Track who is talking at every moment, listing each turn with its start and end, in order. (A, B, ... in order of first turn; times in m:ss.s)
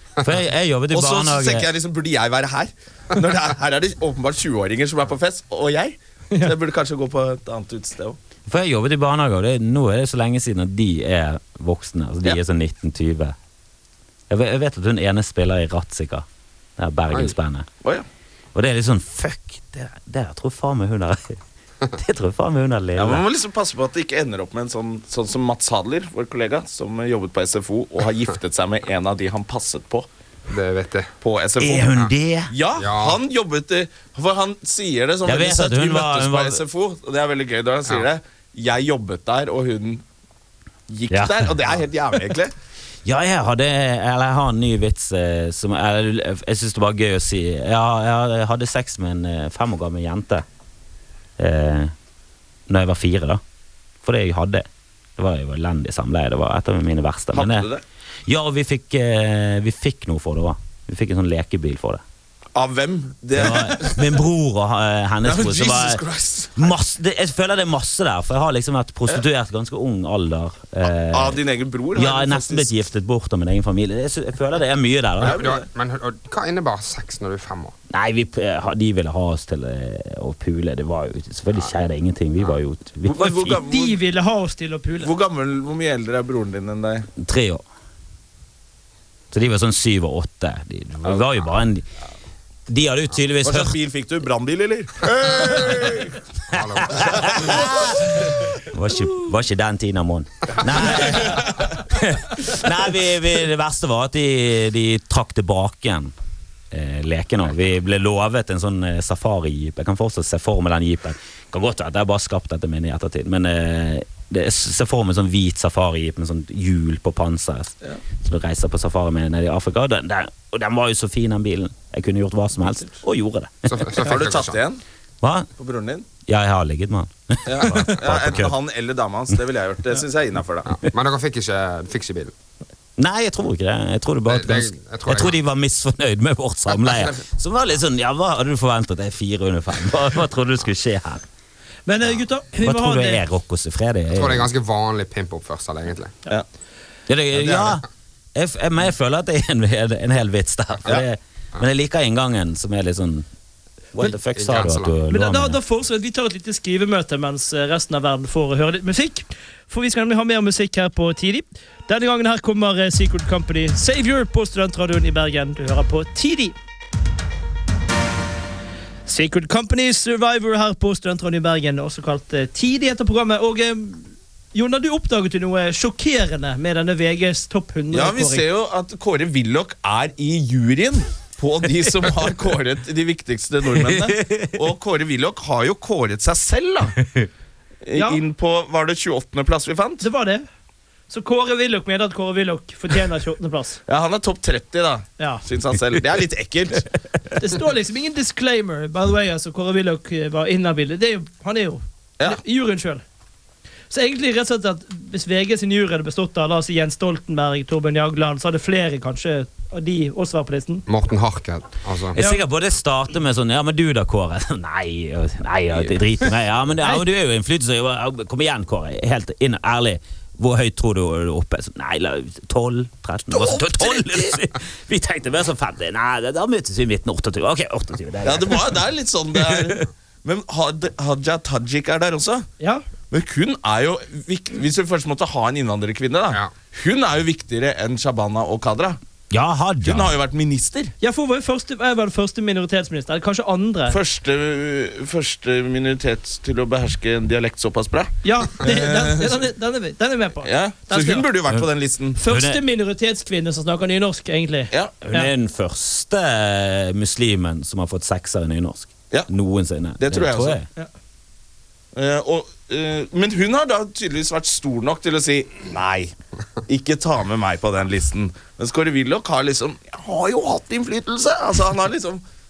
0:00.2-0:01.7 A
0:00.9-0:08.2 B
0:08.5-0:13.3 A
0:14.3-0:16.2 A
0:16.8-0:17.6 A
0:18.5-0:21.4 A
0:21.9-0:23.2 A
0:23.0-0:30.1 B
0:30.5-0:31.1 C
0:31.2-0:40.0 B
0:31.6-0:32.5 A
0:32.8-0:33.2 C
0:35.2-0:36.6 A
0:40.9-0:42.5 B
0:41.1-0:41.5 A
0:43.0-0:50.4 A
0:51.4-0:51.9 A
0:52.7-0:53.4 A
0:54.0-0:57.7 A
0:57.3-0:57.8 B
0:58.3-1:02.0 A
1:02.5-1:04.2 B
1:03.4-1:06.0 A
1:05.2-1:06.7 B
1:06.6-1:11.4 A
1:11.1-1:12.7 B
1:12.0-1:15.4 A
1:15.2-1:15.6 B
1:15.2-1:17.8 C
1:17.9-1:23.6 A
1:23.0-1:24.0 B
1:23.5-1:25.1 D
1:25.0-1:27.1 B
1:27.2-1:27.6 A
1:29.3-1:31.8 A
1:32.7-1:33.7 A
1:33.4-1:36.2 B
1:36.5-1:37.4 C
1:36.5-1:46.1 A
1:36.9-1:37.7 B
1:46.7-2:03.7 A
2:03.7-2:04.6 C
2:04.0-2:04.8 B
2:05.2-2:05.5 A
2:05.6-2:06.1 B
2:06.2-2:08.5 A
2:07.4-2:10.8 B
2:10.7-2:12.3 C
2:13.0-2:21.2 A
2:14.3-2:15.4 C
2:16.7-2:17.2 C
2:21.9-2:23.2 D
2:22.6-2:24.5 A
2:24.1-2:26.1 C
2:27.1-2:33.2 A
2:27.3-2:27.8 B
2:33.9-2:35.6 A
2:34.0-2:35.0 C
2:35.1-2:46.5 D
2:49.1-2:58.4 D
2:57.9-3:06.9 B
3:03.8-3:04.5 A
3:07.8-3:10.0 B
3:07.9-3:08.2 D
3:10.0-3:10.4 D
3:11.1-3:13.8 D
3:13.9-3:16.9 B
3:17.4-3:23.0 D
3:23.9-3:30.8 D
3:30.9-3:32.2 C
3:32.1-3:48.7 A
3:32.1-3:32.4 D
3:43.3-3:44.4 B
3:48.2-3:52.5 B
3:53.1-3:59.0 B
3:59.3-4:00.1 A
3:59.8-4:00.9 B
4:01.0-4:04.0 D
4:03.9-4:09.4 B
4:08.2-4:11.3 D
4:10.4-4:12.2 B
4:12.2-4:15.3 D
4:12.2-4:12.6 A
4:15.0-4:20.7 A
4:20.0-4:20.6 B
4:21.9-4:26.1 B
4:26.7-4:32.2 B